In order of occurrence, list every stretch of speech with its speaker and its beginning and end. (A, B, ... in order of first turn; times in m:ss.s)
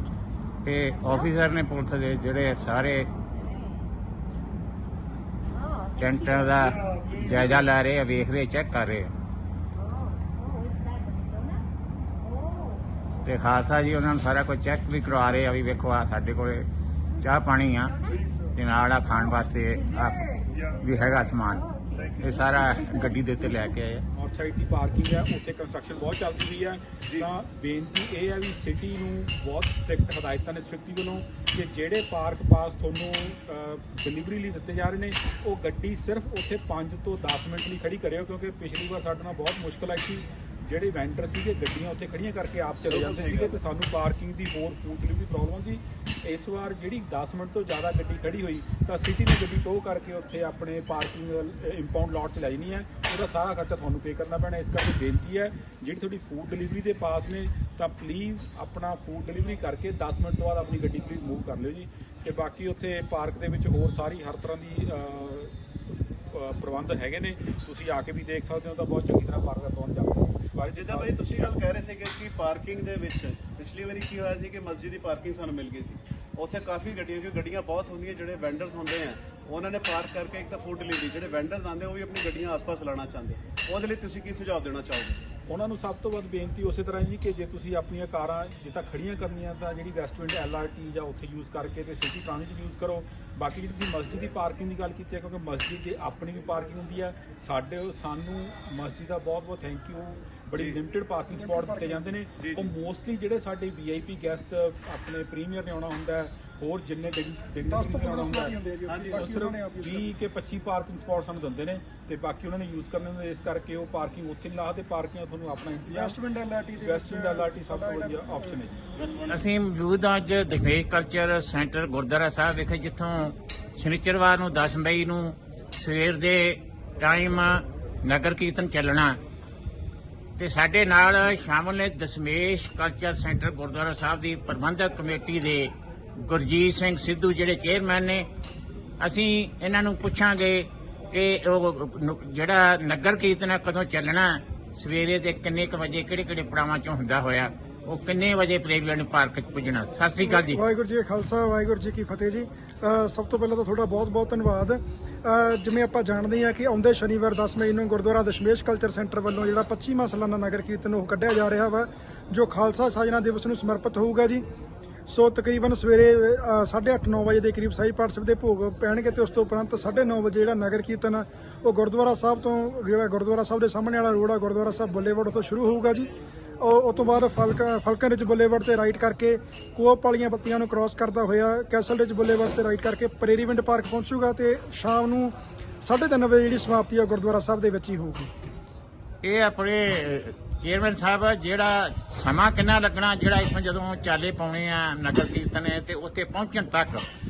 0:00.6-0:03.1 A
0:00.9-0:01.4 B
0:03.3-0:04.1 B
0:05.5-0:07.2 B
0:06.0-0:09.1 A
0:09.8-0:11.7 B
0:12.2-0:12.9 B
0:13.2-0:16.7 A
0:17.2-0:17.9 A
0:17.8-0:18.3 B
0:18.5-0:24.0 A
0:19.1-0:23.8 B
0:24.1-1:05.5 C
0:42.8-0:43.6 D
1:06.3-1:11.5 C
1:10.7-1:25.2 D
1:25.5-1:48.5 C
1:40.5-1:40.8 D
1:41.3-1:42.1 E
1:42.4-1:42.7 D
1:47.7-1:50.1 E
1:48.9-1:49.4 D
1:49.1-1:56.2 C
1:55.9-1:58.6 E
1:56.8-1:58.8 C
1:59.0-1:59.4 D
1:59.3-2:09.2 A
2:10.4-2:18.3 A
2:19.0-2:30.6 A
2:30.2-2:44.4 E
2:45.1-2:56.1 E
2:56.6-3:08.3 E
3:09.2-3:17.1 A